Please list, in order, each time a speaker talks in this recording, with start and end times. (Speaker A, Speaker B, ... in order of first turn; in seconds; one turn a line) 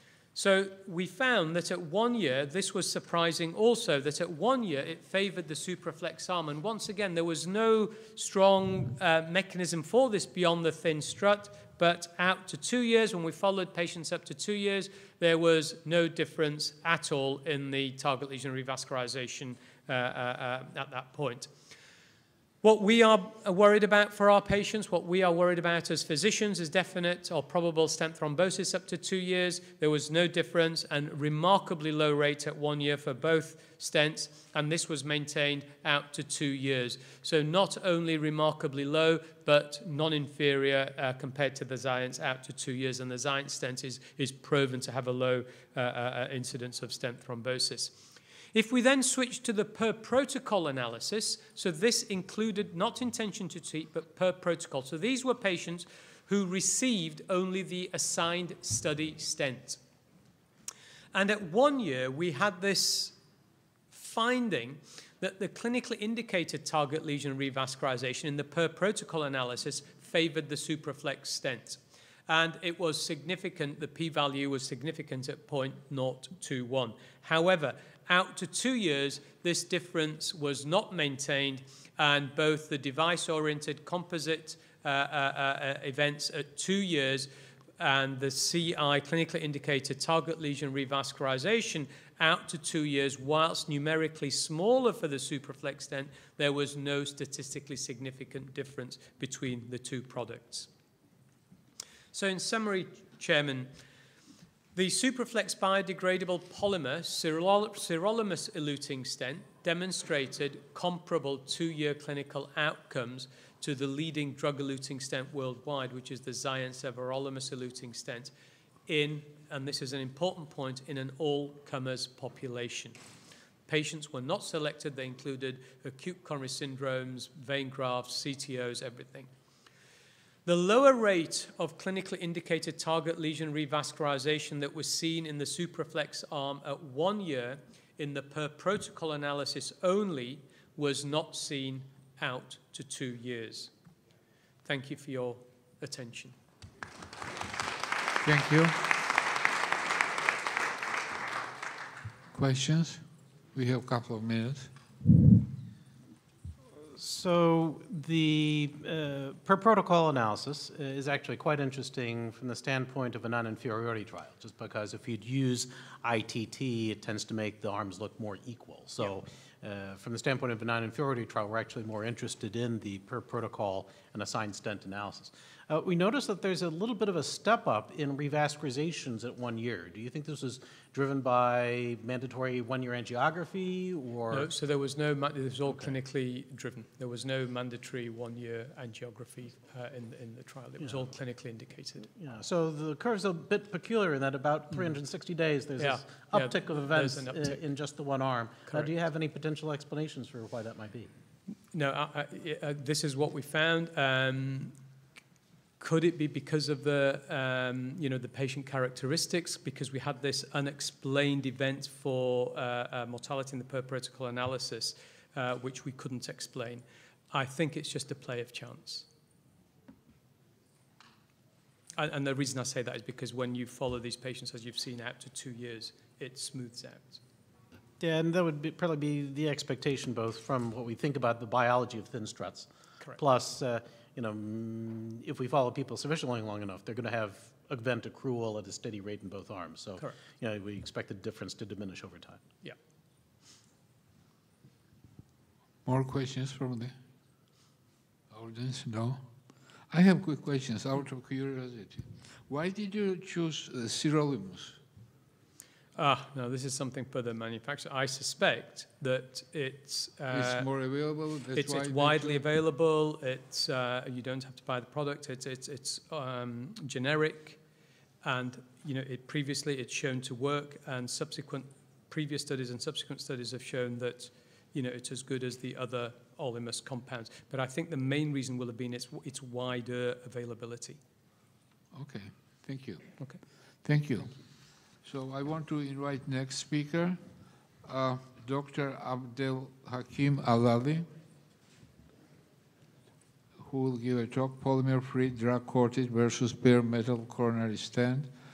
Speaker A: 0.3-21.5
Speaker A: 22.6-48.0
Speaker A: 48.5-59.8
Speaker A: 61.1-63.1
Speaker A: 63.9-100.7
Speaker A: 102.1-103.7
Speaker A: 104.7-118.3
Speaker A: 118.9-123.0
Speaker A: 123.7-129.3
Speaker A: 130.4-143.7
Speaker A: 144.6-146.3
Speaker B: 148.2-148.9
Speaker B: 152.3-153.0
Speaker B: 153.5-154.7
Speaker C: 156.9-184.5
Speaker A: 184.3-192.1
Speaker C: 192.1-201.1
Speaker A: 195.8-197.6
Speaker A: 198.7-198.9
Speaker A: 201.7-204.7
Speaker A: 205.8-219.1
Speaker A: 222.0-227.2
Speaker C: 228.0-242.4
Speaker B: 245.8-246.9
Speaker B: 248.3-249.2
Speaker B: 249.9-254.8
Speaker A: 255.9-260.7
Speaker B: 260.3-262.4
Speaker A: 261.5-267.6
Speaker A: 268.2-281.0
Speaker B: 281.9-283.1
Speaker B: 283.8-284.3
Speaker B: 285.0-287.2
Speaker B: 287.8-291.1
Speaker B: 293.6-298.3